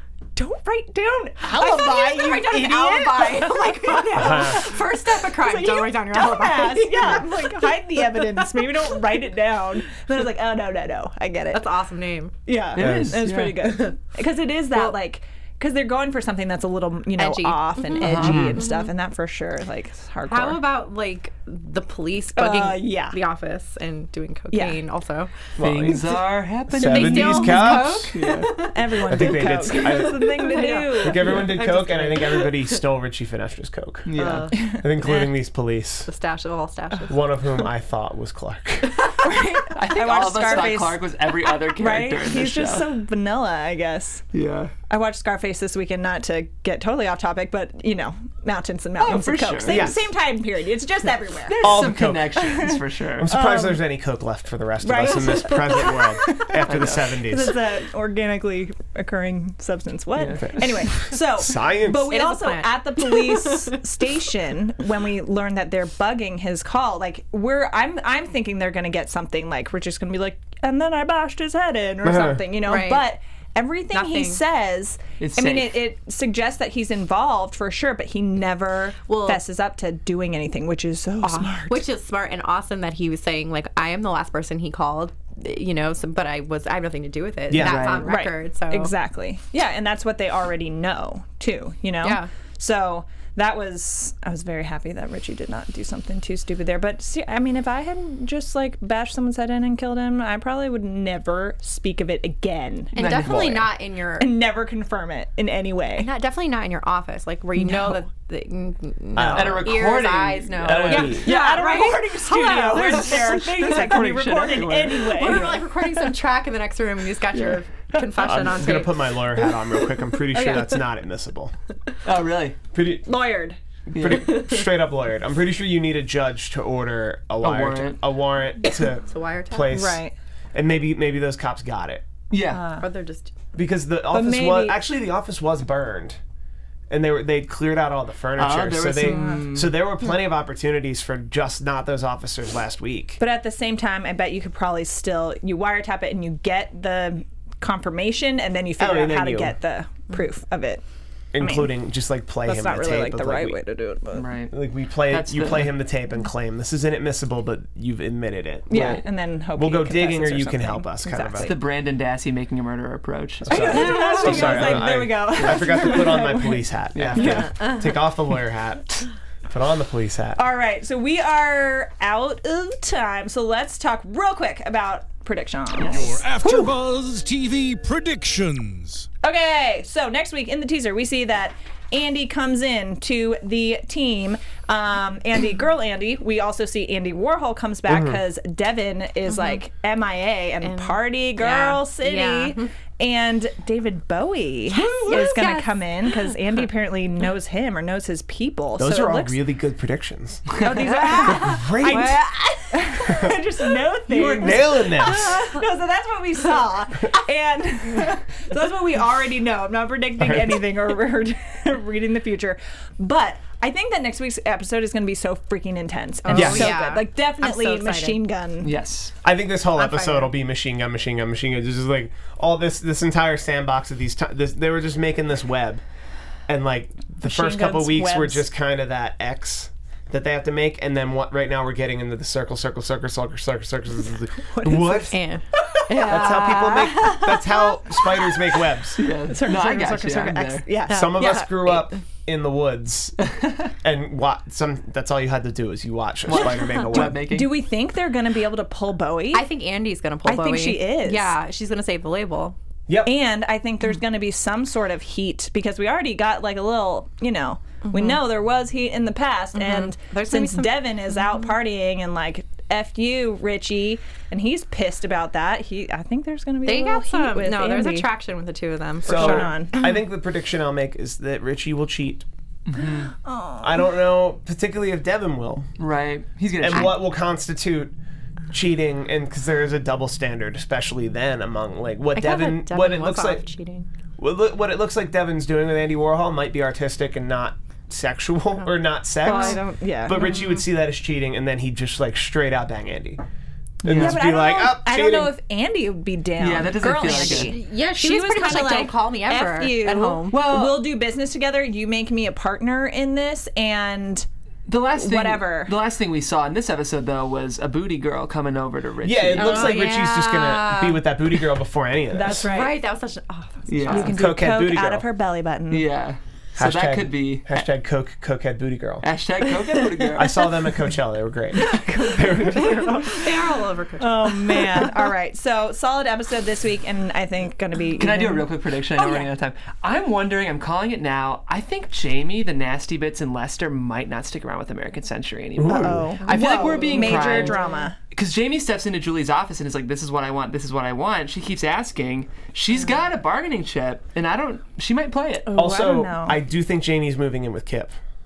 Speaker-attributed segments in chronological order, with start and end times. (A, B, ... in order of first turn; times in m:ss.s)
0:00.4-0:11.7 A
0:01.4-0:08.8 B
0:04.1-0:04.6 C
0:11.5-0:12.3 B
0:12.5-0:20.6 A
0:12.7-0:13.9 D
0:12.8-0:13.2 C
0:14.7-0:15.0 B
0:17.2-0:18.9 B
0:18.0-0:18.6 D
0:18.1-0:18.6 C
0:20.2-0:25.3 B
0:22.4-0:23.2 A
0:24.5-0:24.8 A
0:25.6-0:26.0 C
0:25.6-0:28.7 D
0:26.7-0:28.1 C
0:26.8-0:32.6 B
0:28.7-0:32.4 A
0:29.0-0:36.1 C
0:34.1-0:34.6 D
0:34.2-0:35.3 B
0:36.0-0:37.3 B
0:37.1-0:39.1 C
0:39.2-0:44.2 A
0:39.7-0:42.9 D
0:44.3-0:44.7 D
0:44.9-0:53.8 A
0:49.0-0:49.9 D
0:49.7-0:50.1 C
0:51.5-0:53.3 D
0:51.6-0:57.6 C
0:54.8-0:56.5 A
0:55.5-0:55.9 B
0:56.7-0:57.2 D
0:57.2-1:21.9 A
1:00.2-1:00.6 D
1:00.4-1:02.2 C
1:02.0-1:03.8 B
1:12.0-1:12.4 C
1:12.6-1:13.1 B
1:13.9-1:14.4 B
1:15.2-1:15.8 D
1:19.1-1:19.4 B
1:21.2-1:28.9 B
1:27.5-1:28.0 C
1:27.6-1:28.1 D
1:28.0-1:43.3 A
1:32.0-1:32.3 B
1:42.9-1:44.4 B
1:43.0-1:43.6 D
1:44.2-1:46.1 A
1:46.0-1:53.2 B
1:47.6-1:48.0 A
1:49.2-1:50.0 C
1:49.3-1:51.9 D
1:50.6-1:51.3 C
1:50.9-1:55.7 A
1:52.7-1:55.4 D
1:55.1-1:59.2 B
1:57.3-1:58.0 D
1:58.2-2:01.5 C
2:00.3-2:00.8 A
2:02.0-2:02.6 D
2:02.7-2:03.1 C
2:03.0-2:03.6 A
2:03.9-2:04.5 D
2:03.9-2:12.0 C
2:07.4-2:08.0 D
2:08.9-2:09.8 B
2:09.7-2:10.1 A
2:12.3-2:12.7 D
2:12.5-2:12.9 A
2:12.8-2:13.3 B
2:13.6-2:16.2 C
2:14.1-2:14.8 A
2:16.9-2:23.2 C
2:18.4-2:19.8 D
2:19.0-2:19.5 A
2:23.2-2:30.8 A
2:28.8-2:29.6 C
2:31.3-2:33.6 C
2:31.4-2:31.7 A
2:32.4-2:34.3 A
2:34.1-2:34.5 D
2:34.5-2:41.5 C
2:35.1-2:35.8 D
2:38.7-2:39.0 D
2:38.7-2:41.6 A
2:41.4-2:44.9 D
2:43.4-2:50.4 C
2:43.5-2:46.6 A
2:43.7-2:44.4 B
2:46.9-2:47.5 D
2:47.2-2:48.0 B
2:50.4-2:56.8 A
2:55.8-2:59.1 E
2:59.2-3:19.4 A
3:07.9-3:08.2 C
3:09.3-3:09.6 B
3:10.6-3:12.7 B
3:14.7-3:16.3 B
3:18.8-3:20.5 C
3:20.6-3:38.7 A
3:20.9-3:22.8 B
3:21.1-3:22.3 C
3:23.0-3:23.4 C
3:24.1-3:25.5 C
3:36.2-3:38.2 B
3:36.3-3:36.7 D
3:36.3-3:36.8 C
3:38.6-3:39.1 D
3:39.2-3:45.8 C
3:39.8-3:40.3 A
3:46.5-3:55.2 C
3:47.2-3:48.5 A
3:54.6-3:55.1 A
3:55.1-3:58.0 B
3:55.9-3:56.3 A
3:56.0-3:59.0 C
3:59.0-4:00.7 D
3:59.3-4:01.8 A
4:00.9-4:02.0 B
4:00.9-4:03.2 C
4:03.2-4:03.7 D
4:03.8-4:07.3 C
4:06.3-4:07.6 D
4:06.5-4:06.8 B
4:06.9-4:09.5 A
4:09.3-4:12.6 B
4:10.2-4:11.3 A
4:12.9-4:13.2 C
4:13.0-4:28.1 A
4:17.8-4:18.2 B
4:19.6-4:21.2 B
4:26.6-4:29.6 B
4:29.0-4:29.9 A
4:29.0-4:32.3 C
4:32.7-4:33.1 D
4:33.2-4:33.8 A
4:33.6-4:35.7 C
4:35.8-4:37.0 D
4:36.6-4:38.0 C
4:38.5-4:43.4 C
4:42.1-4:43.9 B
4:44.2-4:53.2 C
4:49.2-4:50.6 A
4:53.8-4:55.3 C
4:53.8-4:54.2 D
4:53.9-5:04.3 A
4:56.4-4:57.6 D
4:57.0-5:00.4 B
5:00.3-5:00.9 D
5:04.7-5:09.8 D
5:04.9-5:05.7 A
5:09.0-5:12.5 C
5:09.4-5:11.1 B
5:12.1-5:12.8 A
5:12.3-5:14.1 B
5:13.7-5:14.2 D
5:13.9-5:15.9 A
5:14.0-5:15.1 C
5:15.7-5:17.5 D
5:16.6-5:19.1 C
5:19.0-5:20.5 D
5:20.1-5:23.2 C
5:21.6-5:25.0 B
5:21.9-5:23.3 A
5:24.0-5:28.5 A
5:28.0-5:45.5 D
5:29.0-5:29.3 B
5:35.6-5:36.1 C
5:35.6-5:38.0 A
5:36.6-5:37.9 B
5:45.5-5:46.4 A
5:45.5-5:48.0 C